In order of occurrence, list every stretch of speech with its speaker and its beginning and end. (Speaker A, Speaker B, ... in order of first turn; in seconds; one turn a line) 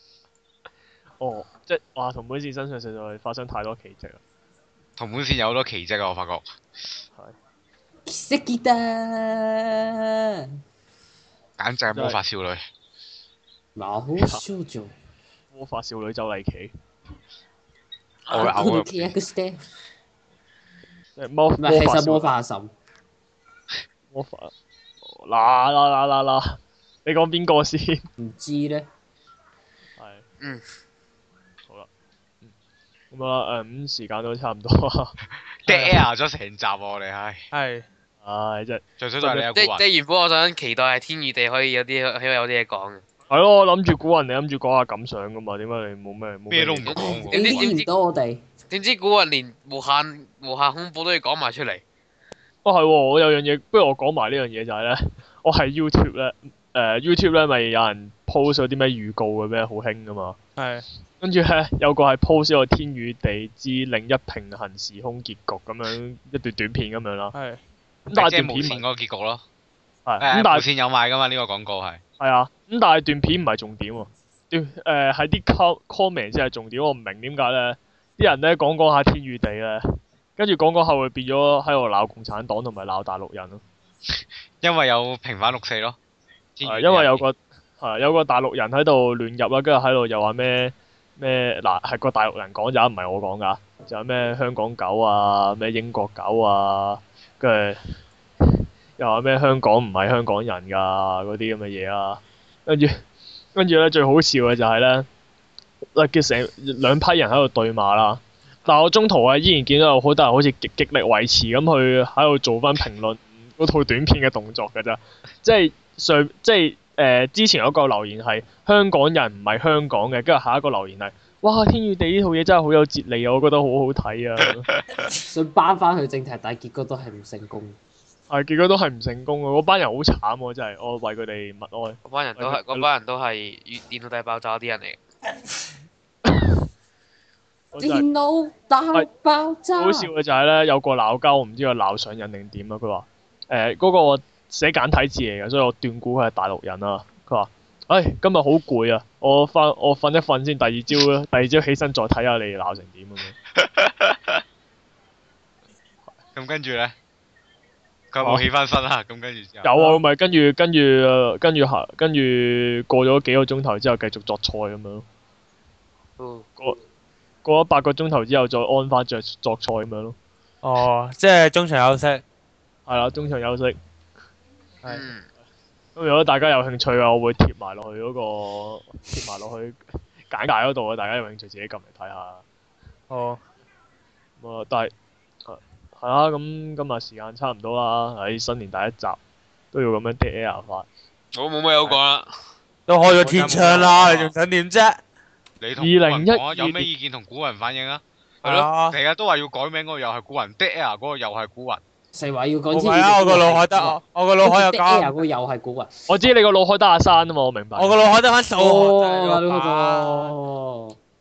Speaker A: 1.2-4.2
Speaker B: 5.0-6.4
Speaker C: 8.1-10.4
Speaker B: 11.6-12.6
Speaker C: 13.8-14.9
Speaker A: 15.5-16.7
Speaker C: 18.3-19.6
Speaker B: 18.3-19.1
Speaker A: 21.1-22.3
Speaker C: 21.6-22.7
Speaker A: 24.1-24.5
Speaker A: 25.0-28.1
Speaker C: 28.2-28.9
Speaker A: 30.0-30.2
Speaker A: 33.1-35.1
Speaker B: 35.6-37.4
Speaker D: 35.7-36.0
Speaker D: 37.5-37.9
Speaker A: 38.2-39.5
Speaker B: 39.0-39.8
Speaker E: 39.5-43.0
Speaker A: 43.3-46.9
Speaker B: 46.5-47.7
Speaker E: 46.8-47.9
Speaker C: 46.9-48.4
Speaker E: 48.7-51.8
Speaker A: 52.6-60.4
Speaker D: 60.6-60.9
Speaker A: 61.2-67.3
Speaker D: 67.3-67.6
Speaker A: 68.1-68.8
Speaker B: 68.1-69.4
Speaker A: 70.0-70.6
Speaker B: 70.2-72.0
Speaker A: 72.2-83.6
Speaker B: 84.1-86.0
Speaker B: 86.6-87.2
Speaker A: 86.6-97.8
Speaker A: 98.4-103.0
Speaker A: 103.5-105.1
Speaker A: 105.9-124.7
Speaker C: 125.1-127.8
Speaker A: 128.3-132.8
Speaker E: 132.0-135.0
Speaker A: 137.7-138.1
Speaker C: 137.8-140.1
Speaker A: 139.8-153.3
Speaker B: 153.6-154.4
Speaker B: 156.3-156.9
Speaker B: 158.1-159.7
Speaker A: 159.6-165.0
Speaker E: 166.2-166.5
Speaker A: 167.4-170.2
Speaker D: 170.6-172.2
Speaker A: 172.9-173.8
Speaker E: 174.8-175.3
Speaker A: 175.9-182.4
Speaker D: 183.1-183.4
Speaker A: 184.4-184.9
Speaker A: 185.4-189.2
Speaker A: 189.7-190.8
Speaker E: 191.3-192.3
Speaker D: 192.9-195.0
Speaker B: 193.2-194.3
Speaker B: 195.6-201.8
Speaker A: 195.8-196.9
Speaker D: 198.4-199.0
Speaker C: 202.1-205.9
Speaker D: 202.7-205.2
Speaker A: 206.1-207.9
Speaker D: 207.8-210.3
Speaker C: 208.5-211.0